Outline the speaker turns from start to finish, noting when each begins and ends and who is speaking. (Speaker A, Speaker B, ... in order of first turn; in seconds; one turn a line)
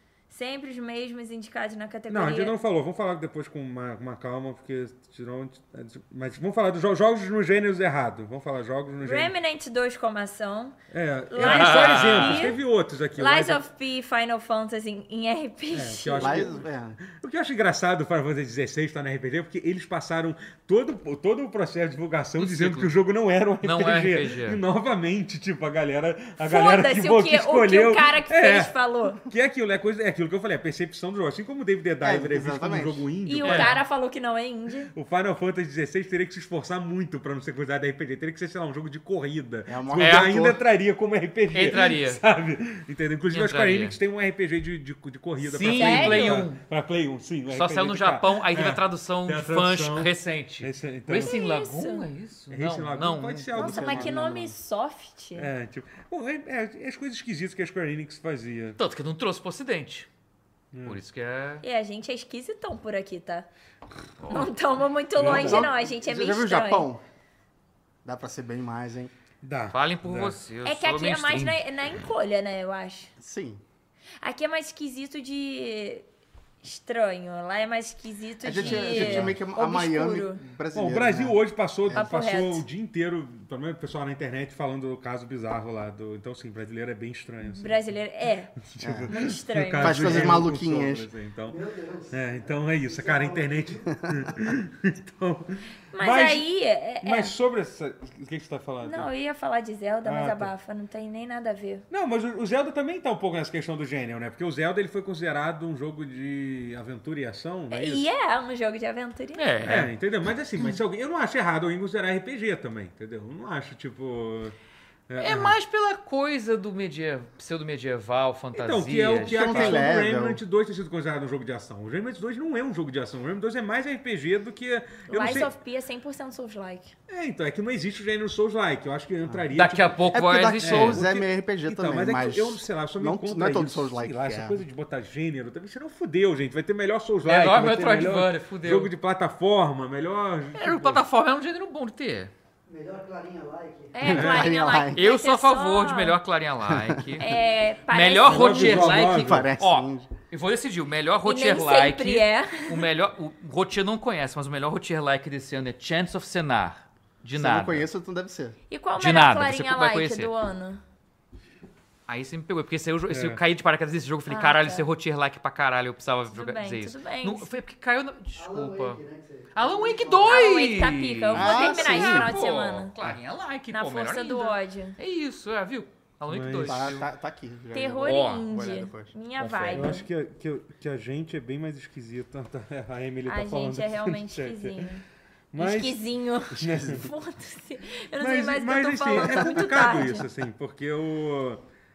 Speaker A: 0.3-2.5
Speaker B: 2.1-9.3
Speaker A: 9.0-10.8
Speaker B: 10.9-13.6
Speaker A: 11.3-12.6
Speaker C: 11.4-12.5
Speaker A: 13.2-16.5
Speaker B: 15.7-33.8
Speaker D: 16.2-17.0
Speaker C: 22.4-22.9
Speaker C: 23.6-24.6
Speaker A: 26.4-29.2
Speaker D: 32.0-33.1
Speaker A: 33.2-34.9
Speaker C: 33.4-33.8
Speaker B: 34.9-51.4
Speaker D: 39.7-40.6
Speaker C: 40.0-40.5
Speaker C: 41.5-42.2
Speaker C: 43.3-44.0
Speaker C: 45.4-46.6
Speaker A: 45.6-46.5
Speaker C: 47.5-53.5
Speaker A: 51.2-52.0
Speaker B: 52.5-54.2
Speaker A: 53.5-55.5
Speaker D: 53.6-54.5
Speaker B: 55.4-58.8
Speaker C: 58.8-60.1
Speaker B: 60.7-61.0
Speaker C: 60.9-61.6
Speaker A: 61.6-63.5
Speaker C: 64.2-64.5
Speaker A: 64.3-66.9
Speaker B: 65.2-65.7
Speaker D: 65.2-67.0
Speaker D: 68.0-69.1
Speaker B: 69.4-70.4
Speaker C: 69.7-71.6
Speaker A: 70.7-73.1
Speaker D: 73.2-73.6
Speaker A: 74.2-76.0
Speaker A: 76.6-80.4
Speaker D: 78.4-81.4
Speaker B: 78.6-79.4
Speaker B: 80.7-87.8
Speaker D: 81.9-82.1
Speaker A: 81.9-82.6
Speaker A: 87.4-88.6
Speaker B: 88.6-91.6
Speaker D: 88.8-89.1
Speaker A: 89.1-90.4
Speaker D: 89.8-91.1
Speaker E: 91.5-94.3
Speaker B: 92.1-96.5
Speaker A: 95.9-97.3
Speaker B: 97.0-99.1
Speaker A: 98.8-101.8
Speaker B: 100.0-100.5
Speaker B: 101.9-108.1
Speaker A: 107.7-109.5
Speaker C: 109.4-109.9
Speaker B: 109.6-114.6
Speaker B: 115.1-115.6
Speaker C: 115.2-119.8
Speaker B: 118.5-125.5
Speaker D: 119.2-120.4
Speaker A: 125.1-126.9
Speaker B: 127.1-130.0
Speaker C: 129.5-131.1
Speaker D: 130.1-134.6
Speaker B: 130.6-141.0
Speaker C: 137.2-138.9
Speaker C: 140.5-142.3
Speaker E: 142.7-144.1
Speaker A: 143.9-146.2
Speaker D: 144.1-145.0
Speaker B: 144.1-144.5
Speaker C: 144.9-147.3
Speaker D: 146.7-147.1
Speaker A: 147.2-148.8
Speaker C: 147.9-157.9
Speaker B: 148.2-149.5
Speaker D: 148.5-150.1
Speaker A: 151.2-152.8
Speaker D: 157.4-158.6
Speaker A: 158.7-160.8
Speaker C: 159.0-160.3
Speaker C: 162.1-169.0
Speaker B: 163.1-163.4
Speaker A: 164.3-164.9
Speaker A: 166.3-167.5
Speaker E: 168.3-170.4
Speaker C: 169.5-177.1
Speaker A: 170.2-172.9
Speaker D: 171.3-172.3
Speaker A: 173.7-175.0
Speaker B: 176.3-177.0
Speaker D: 176.6-179.1
Speaker A: 177.7-180.1
Speaker C: 178.0-178.5
Speaker C: 179.4-180.0
Speaker B: 179.7-184.8
Speaker A: 183.3-185.0
Speaker B: 185.5-186.0
Speaker A: 185.6-190.3
Speaker B: 186.5-187.1
Speaker B: 188.2-191.6
Speaker D: 189.2-189.9